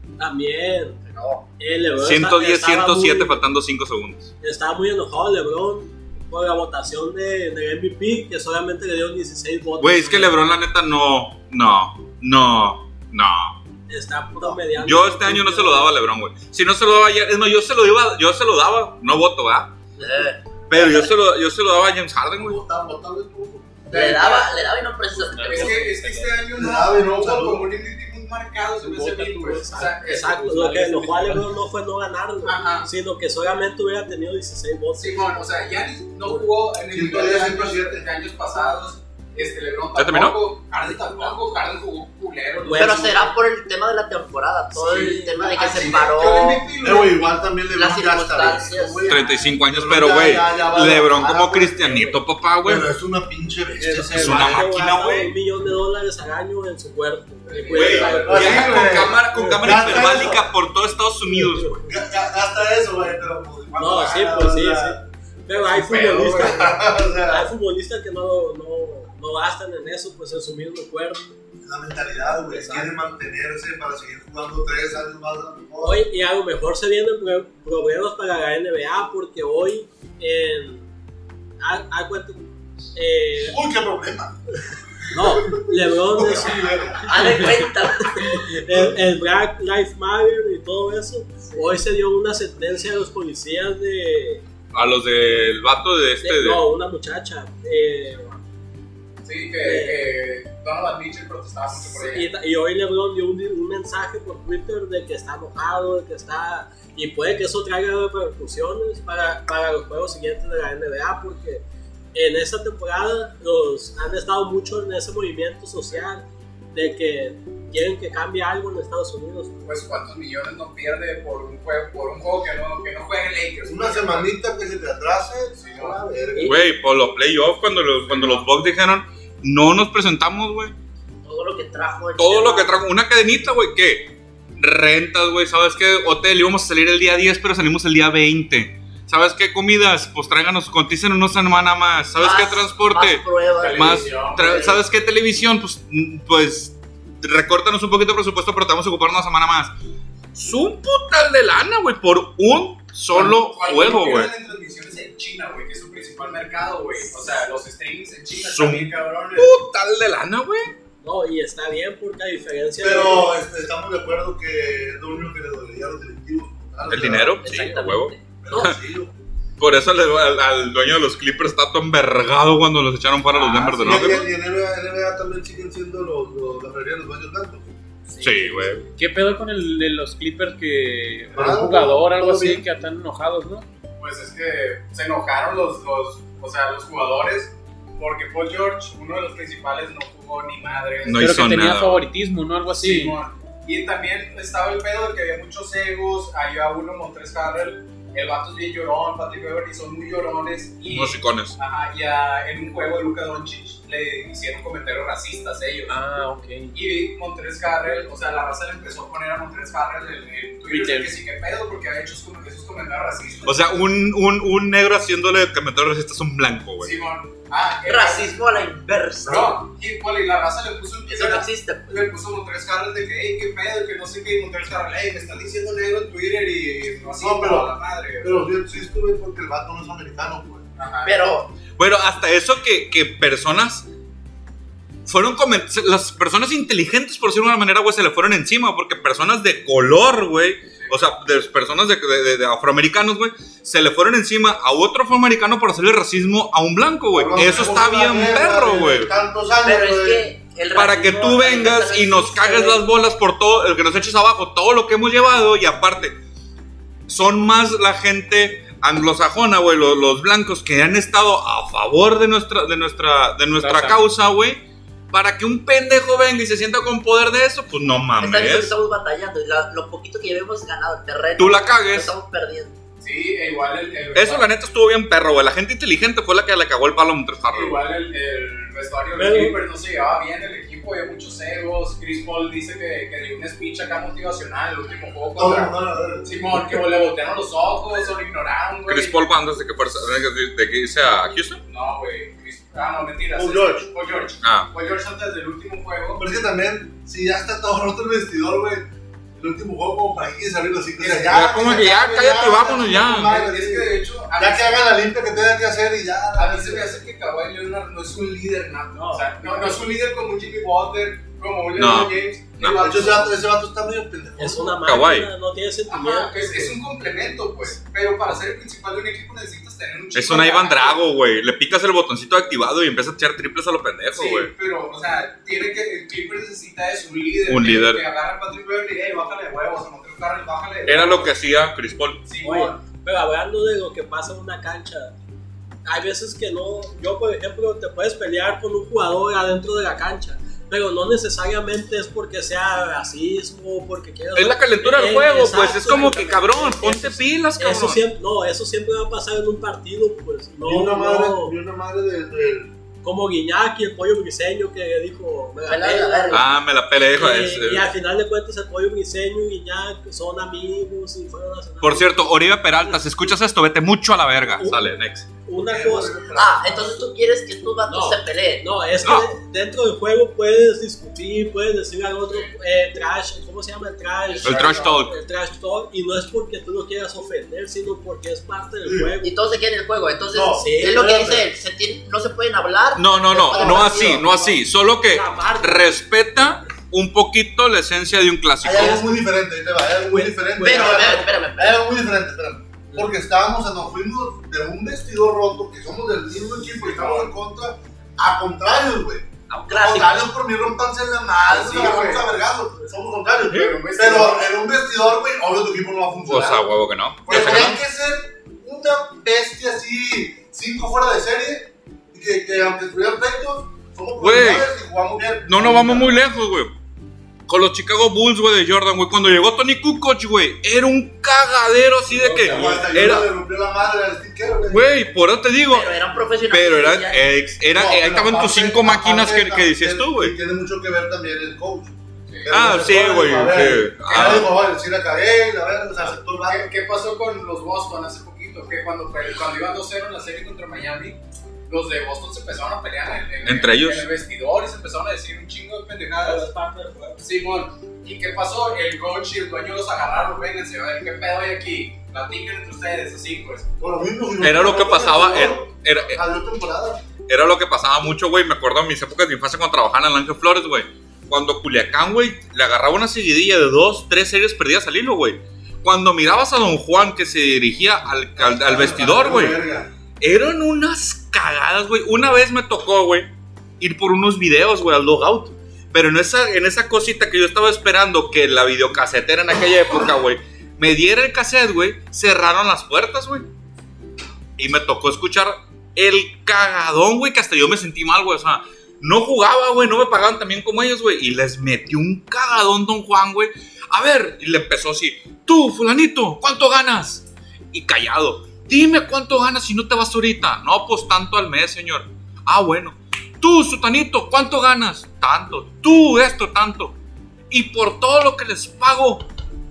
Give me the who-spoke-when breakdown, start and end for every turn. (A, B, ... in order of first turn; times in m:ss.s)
0:00.2-0:01.0 A
0:01.1-0:01.4 B
0:01.6-0:03.4 A
0:02.0-0:04.3 C
0:04.4-0:10.4 A
0:09.8-0:13.6 C
0:13.9-0:15.9 A
0:14.7-0:19.7 C
0:20.0-0:21.1 B
0:20.7-0:22.6 C
0:22.4-0:24.5 D
0:23.9-0:25.9 B
0:25.1-0:26.4 E
0:25.4-0:30.4 F
0:26.5-0:27.7 D
0:28.8-0:31.5 E
0:29.7-0:35.4 A
0:32.4-0:32.9 F
0:35.0-0:43.3 F
0:36.9-0:38.0 D
0:40.0-0:40.4 C
0:42.6-0:43.2 A
0:42.7-0:46.7 B
0:44.8-0:45.4 A
0:44.8-0:47.1 F
0:45.4-0:52.1 D
0:47.7-0:49.2 B
0:49.1-0:52.9 C
0:52.6-0:54.7 D
0:53.8-0:58.7 A
0:54.1-0:55.3 C
0:57.5-0:59.0 F
0:57.7-1:01.9 C
0:58.2-1:00.5 D
1:01.3-1:01.8 A
1:01.9-1:05.0 D
1:03.8-1:11.3 A
1:05.7-1:06.5 F
1:06.1-1:07.5 D
1:11.6-1:16.0 D
1:12.4-1:13.1 A
1:15.8-1:20.9 A
1:21.6-1:23.6 A
1:23.4-1:24.4 D
1:25.0-1:27.4 D
1:25.1-1:34.4 A
1:27.0-1:28.5 B
1:28.7-1:28.9 D
1:34.7-1:36.6 C
1:36.2-1:38.4 A
1:39.2-1:42.3 F
1:39.6-1:40.0 A
1:42.1-1:51.6 A
1:52.1-1:59.6 A
1:59.6-2:04.3 F
2:03.6-2:06.5 D
2:05.6-2:06.0 F
2:06.3-2:06.6 A
2:06.4-2:10.8 C
2:08.1-2:08.5 F
2:11.2-2:12.8 B
2:12.2-2:29.8 C
2:22.2-2:24.1 B
2:23.6-2:24.8 F
2:30.3-2:34.3 C
2:33.1-2:39.5 F
2:38.4-2:40.7 C
2:41.0-2:43.4 A
2:42.8-2:47.5 D
2:46.9-2:48.8 C
2:47.4-2:48.6 B
2:48.4-2:49.1 D
2:49.6-2:54.3 C
2:53.3-2:54.2 F
2:53.8-2:57.7 D
2:58.2-2:58.9 C
2:59.0-3:03.6 E
3:01.3-3:02.6 D
3:04.0-3:11.4 F
3:11.0-3:12.0 C
3:11.1-3:13.2 E
3:12.7-3:26.0 F
3:20.9-3:21.6 C
3:25.9-3:26.7 E
3:26.7-3:33.8 F
3:30.7-3:31.1 E
3:33.4-3:36.9 C
3:36.8-3:38.4 F
3:37.9-3:39.6 B
3:39.2-3:48.5 F
3:41.1-3:42.1 B
3:47.2-3:50.6 D
3:50.8-3:51.2 F
3:51.0-3:51.6 B
3:51.7-3:53.9 C
3:55.0-4:09.1 C
4:00.8-4:01.1 F
4:07.1-4:10.2 D
4:09.6-4:12.8 B
4:10.7-4:16.2 C
4:17.1-4:28.7 C
4:23.6-4:24.0 E
4:28.2-4:32.8 B
4:31.4-4:32.1 C
4:33.0-4:34.5 F
4:34.1-4:37.8 C
4:37.5-4:49.3 F
4:39.2-4:39.6 A
4:45.4-4:46.6 D
4:48.9-4:51.6 C
4:51.7-4:56.2 F
4:53.4-4:53.9 D
4:54.4-4:54.7 C
4:56.2-5:06.9 D
5:01.0-5:01.4 F
5:01.3-5:03.4 C
5:02.7-5:04.9 F
5:06.4-5:13.4 F
5:08.9-5:09.9 A
5:11.8-5:12.8 C
5:12.6-5:14.8 D
5:14.4-5:16.7 A
5:14.8-5:15.3 C
5:15.9-5:21.0 F
5:20.1-5:24.5 C
5:24.1-5:31.3 F
5:27.5-5:28.0 C
5:30.9-5:32.2 C
5:32.2-5:32.8 F
5:32.4-5:35.1 A
5:35.8-5:51.5 A
5:44.3-5:48.0 C
5:50.6-5:52.7 D
5:53.0-5:56.5 A
5:55.7-5:56.5 B
5:56.3-5:57.9 C
5:57.1-6:02.3 A
6:01.8-6:05.3 C
6:04.6-6:04.9 A
6:05.4-6:06.3 A
6:05.6-6:07.0 D
6:06.3-6:08.7 B
6:07.9-6:19.3 A
6:09.0-6:09.3 C
6:14.4-6:15.1 C
6:18.8-6:19.1 D
6:19.2-6:24.3 B
6:20.3-6:21.5 D
6:20.6-6:21.2 A
6:23.0-6:29.0 C
6:23.4-6:24.5 D
6:25.1-6:25.9 A
6:28.6-6:46.7 D
6:30.0-6:31.3 A
6:30.6-6:31.8 B
6:36.8-6:37.3 F
6:39.5-6:40.3 B
6:41.5-6:42.3 F
6:43.5-6:44.5 F
6:46.3-6:47.8 C
6:47.2-6:56.2 D
6:54.2-6:54.7 C
6:55.5-6:56.7 C
6:57.5-7:03.3 C
7:02.1-7:02.8 A
7:02.5-7:04.9 D
7:04.7-7:05.9 C
7:05.7-7:07.3 B
7:06.5-7:10.4 C
7:07.7-7:12.0 D
7:12.3-7:12.6 F
7:12.5-7:16.7 D
7:12.5-7:14.5 C
7:14.0-7:14.5 F
7:16.0-7:26.5 F
7:23.4-7:24.1 C
7:26.2-7:27.2 A
7:27.2-7:33.7 F
7:33.8-7:37.0 D
7:34.4-7:36.2 C
7:37.3-7:49.6 C
7:48.4-7:49.9 D
7:50.2-8:03.5 C
8:04.6-8:27.0 C
8:27.5-8:29.2 C